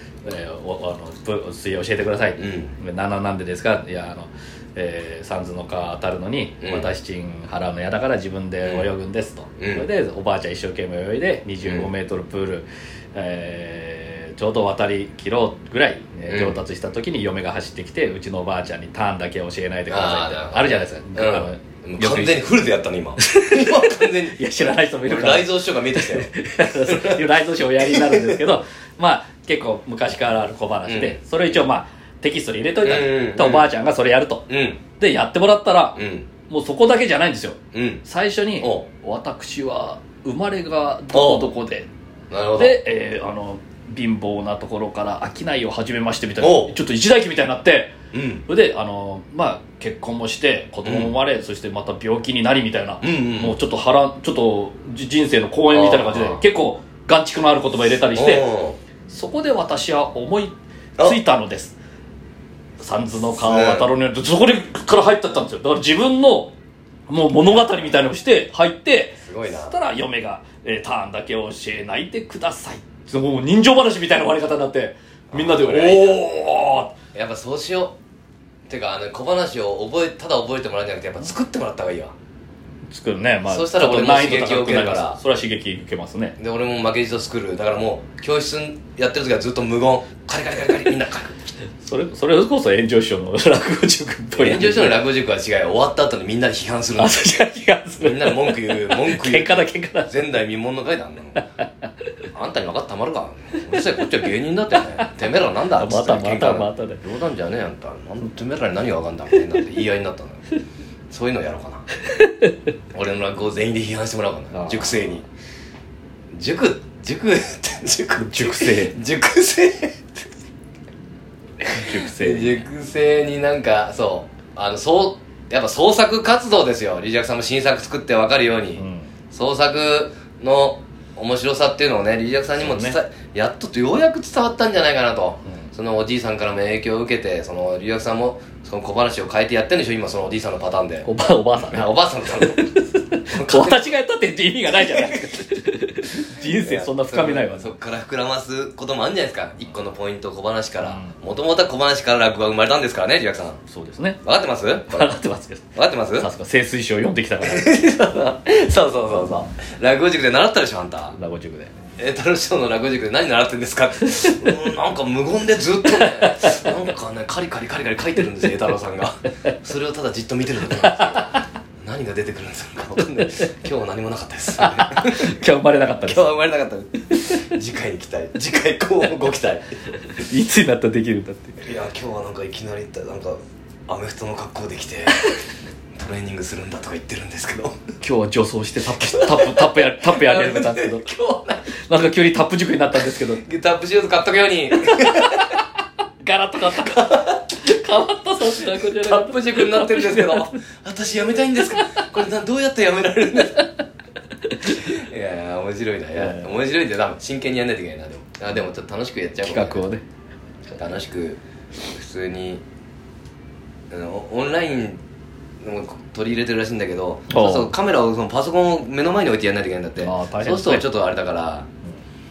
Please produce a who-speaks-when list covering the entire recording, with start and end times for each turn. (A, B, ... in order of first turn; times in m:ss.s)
0:00.2-0:22.4 A
0:02.4-0:02.7 B
0:06.6-0:06.9 B
0:08.6-0:08.9 B
0:09.6-0:09.9 B
0:11.6-0:11.9 B
0:16.3-0:16.6 B
0:19.9-0:27.2 B
0:23.2-0:34.5 A
0:27.8-0:28.4 B
0:30.9-0:31.6 B
0:32.8-0:33.7 B
0:34.5-0:34.8 B
0:35.0-0:36.0 A
0:36.0-0:36.3 B
0:36.5-0:41.9 A
0:37.7-0:38.0 B
0:38.6-0:38.8 B
0:41.1-0:41.5 B
0:42.3-0:42.8 B
0:42.6-0:47.9 A
0:46.4-0:46.7 B
0:48.1-0:48.4 B
0:48.5-0:58.5 A
0:50.8-0:51.1 B
0:53.0-0:53.6 B
0:55.7-0:56.4 B
0:58.2-0:58.8 B
0:59.1-1:01.8 A
1:02.8-1:06.5 A
1:03.3-1:03.9 B
1:07.1-1:16.9 A
1:09.2-1:09.8 B
1:15.3-1:16.2 B
1:17.1-1:18.0 B
1:18.7-1:22.1 B
1:22.9-1:26.4 A
1:23.5-1:25.2 B
1:26.4-1:31.5 B
1:31.8-1:35.0 A
1:34.4-1:37.2 B
1:37.0-1:40.2 A
1:38.0-1:41.4 B
1:41.4-1:41.7 A
1:42.3-1:50.4 B
1:45.8-1:47.0 A
1:51.1-1:51.9 B
1:52.1-1:52.5 A
1:52.9-1:55.2 B
1:54.5-1:55.2 A
1:56.3-2:00.1 B
1:58.2-1:59.0 A
2:01.6-2:02.6 A
2:01.9-2:23.9 B
2:08.8-2:09.1 A
2:12.6-2:13.0 A
2:21.0-2:27.7 A
2:24.9-2:25.2 B
2:26.5-2:33.6 B
2:30.8-2:31.1 A
2:33.7-2:34.2 A
2:34.2-2:35.2 B
2:34.9-2:37.7 A
2:35.8-2:36.3 B
2:37.4-2:41.2 B
2:41.1-2:41.7 A
2:42.0-2:55.4 B
2:44.1-2:44.5 A
2:46.0-2:46.6 A
2:50.8-2:51.3 A
2:54.6-2:56.3 A
2:56.1-2:59.7 B
3:00.2-3:01.6 A
3:01.6-3:05.2 B
3:05.9-3:07.8 B
3:08.0-3:11.1 A
3:09.0-3:11.7 B
3:11.8-3:13.4 A
3:13.4-3:15.6 B
3:14.8-3:15.6 A
3:16.2-3:20.5 A
3:16.7-3:17.4 B
3:18.8-3:23.7 B
3:21.7-3:22.0 A
3:24.7-3:29.8 B
3:26.2-3:26.5 A
3:29.4-3:30.0 A
3:30.8-3:32.6 B
3:33.9-3:35.0 B
3:35.6-3:41.7 B
3:37.3-3:37.7 A
3:40.0-3:40.9 A